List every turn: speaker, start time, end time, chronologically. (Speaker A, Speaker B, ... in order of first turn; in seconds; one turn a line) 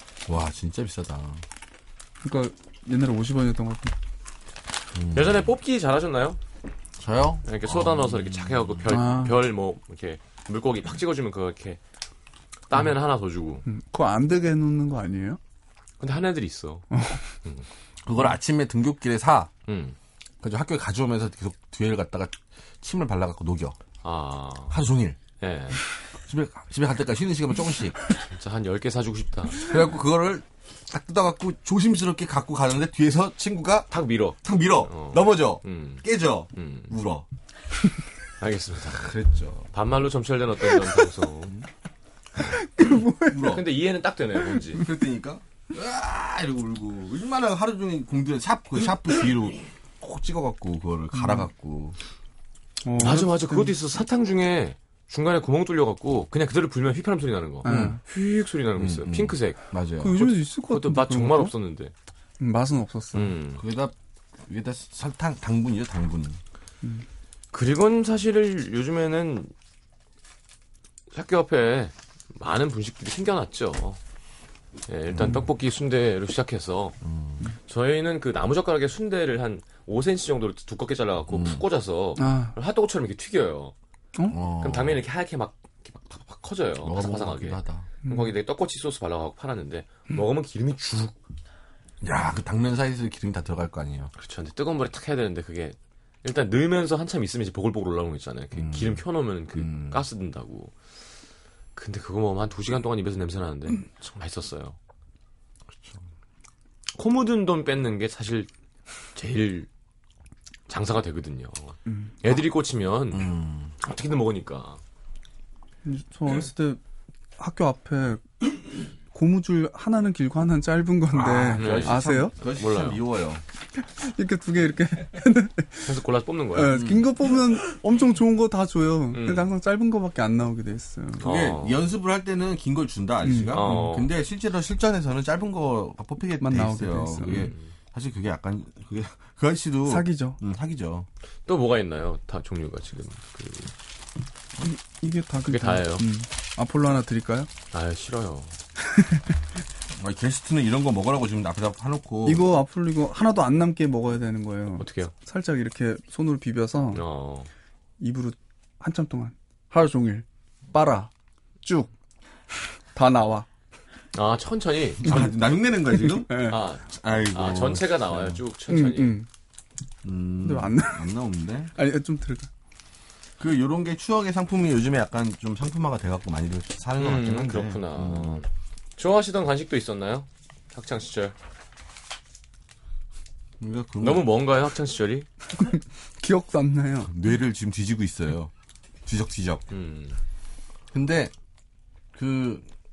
Speaker A: 0.3-1.4
Speaker B: 2.2-4.0
Speaker A: 4.9-5.5
Speaker C: 5.1-6.4
Speaker A: 7.0-8.8
Speaker C: 7.5-11.8
Speaker B: 8.9-9.4
Speaker C: 12.7-13.7
Speaker B: 13.7-15.4
Speaker C: 16.0-16.9
Speaker B: 16.9-17.2
Speaker A: 18.1-19.5
Speaker C: 19.7-20.0
Speaker A: 20.4-23.8
Speaker C: 24.0-24.8
Speaker A: 24.7-25.2
Speaker C: 25.4-25.8
Speaker A: 26.2-28.0
Speaker C: 28.3-29.8
Speaker A: 29.6-37.3
Speaker C: 33.9-37.0
Speaker C: 38.4-39.1
Speaker A: 38.9-39.7
Speaker C: 39.7-41.5
Speaker B: 42.4-43.5
Speaker A: 43.3-43.7
Speaker C: 43.4-44.9
Speaker A: 44.6-52.0
Speaker B: 51.1-51.5
Speaker B: 52.8-53.7
Speaker C: 53.0-59.6
Speaker A: 57.6-58.0
Speaker B: 57.6-58.0
Speaker A: 58.8-60.2
Speaker B: 60.0-61.5
Speaker C: 60.1-61.9
Speaker B: 62.4-63.4
Speaker C: 63.1-63.6
Speaker A: 63.6-66.4
Speaker C: 67.5-69.5
Speaker C: 71.1-74.0
Speaker C: 74.9-77.0
Speaker A: 75.1-75.5
Speaker A: 77.0-77.5
Speaker C: 77.7-83.7
Speaker A: 81.3-81.7
Speaker B: 82.2-82.5
Speaker A: 84.3-85.0
Speaker C: 84.5-91.2
Speaker A: 86.8-87.9
Speaker B: 88.0-88.3
Speaker A: 92.0-94.1
Speaker C: 94.2-100.7
Speaker A: 98.5-100.0
Speaker C: 101.8-104.8
Speaker A: 105.7-106.1
Speaker C: 106.9-108.5
Speaker C: 109.2-109.7
Speaker C: 110.7-114.8
Speaker B: 111.9-112.1
Speaker A: 113.1-113.7
Speaker B: 115.8-116.8
Speaker B: 117.4-122.3
Speaker A: 121.1-123.4
Speaker C: 121.6-123.0
Speaker B: 123.8-126.0
Speaker C: 125.9-126.9
Speaker B: 126.5-131.2
Speaker A: 126.7-127.1
Speaker C: 129.1-129.5
Speaker A: 131.2-141.1
Speaker C: 131.2-131.8
Speaker B: 133.2-133.9
Speaker C: 133.5-134.1
Speaker B: 136.4-137.5
Speaker C: 137.2-137.7
Speaker B: 139.9-140.4
Speaker C: 141.5-143.7
Speaker B: 144.6-147.5
Speaker C: 145.5-146.1
Speaker C: 147.7-148.6
Speaker A: 149.9-152.5
Speaker B: 152.2-157.1
Speaker C: 154.8-155.1
Speaker C: 156.9-157.5
Speaker B: 158.0-161.1
Speaker B: 161.6-161.9
Speaker B: 162.9-163.5
Speaker C: 164.1-165.4
Speaker A: 165.0-168.4
Speaker B: 165.9-166.6
Speaker C: 166.5-169.2
Speaker B: 168.7-169.3
Speaker A: 170.0-171.7
Speaker B: 170.4-171.1
Speaker B: 171.8-172.5
Speaker A: 173.4-178.4
Speaker C: 177.0-181.3
Speaker A: 183.6-184.3
Speaker C: 184.0-185.3
Speaker B: 185.6-187.1
Speaker A: 187.1-188.5
Speaker A: 189.1-189.7
Speaker C: 189.7-190.2
Speaker A: 190.9-191.3
Speaker A: 192.1-192.7